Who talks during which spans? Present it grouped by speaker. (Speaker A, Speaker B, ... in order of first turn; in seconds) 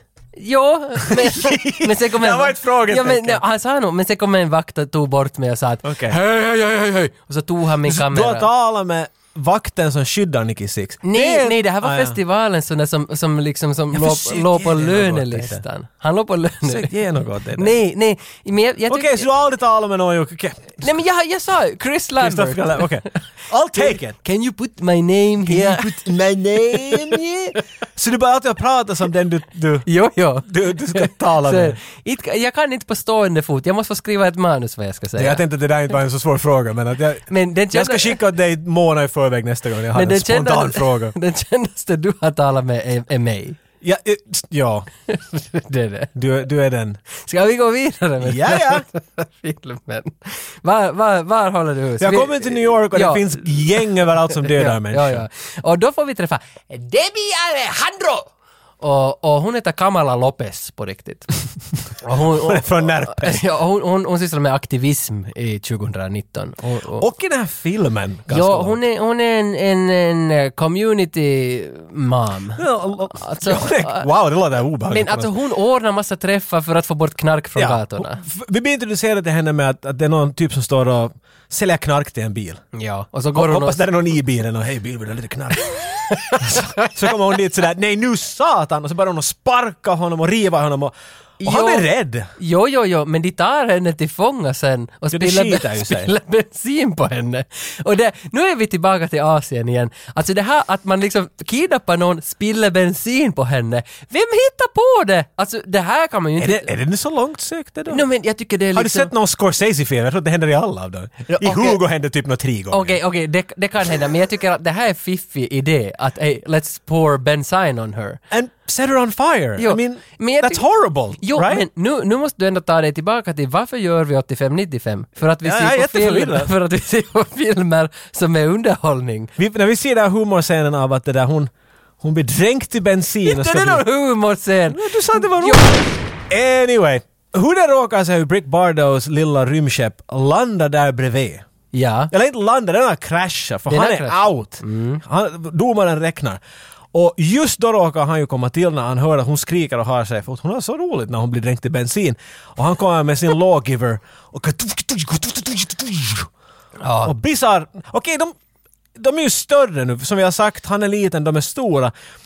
Speaker A: 0.4-8.5, 11.0-16.9, 17.6-19.3, 20.8-22.9, 23.7-26.1, 26.7-27.2, 29.9-35.4, 37.3-38.2, 39.9-43.6, 45.1-46.1, 47.1-58.3, 58.8-61.3, 62.0-67.0, 68.3-74.1, 74.9-78.2, 82.7-83.8, 85.8-87.0, 91.4-106.7, 107.9-109.1, 111.3-111.8, 112.7-118.2, 119.6-120.6, 121.2-129.3, 133.2-135.8, 141.7-142.1, 143.7-145.0, 156.8-157.2
Speaker B: 1.1-3.4, 5.8-6.2, 7.8-12.2, 13.9-15.6, 16.6-17.8, 18.9-20.9, 22.2-24.2, 25.4-29.9, 30.4-31.8, 35.1-41.1, 43.8-44.9, 46.1-47.0, 48.2-48.9, 52.0-55.2, 62.3-63.4, 66.8-68.8, 72.6-75.3, 77.5-82.6, 83.3-85.7, 86.3-92.3, 95.1-96.1, 106.4-108.0, 108.7-113.0, 118.3-121.7, 125.4-126.5, 129.4-133.8, 134.7-141.4, 142.1-146.4, 146.9-156.3, 157.0-158.3, 158.9-161.9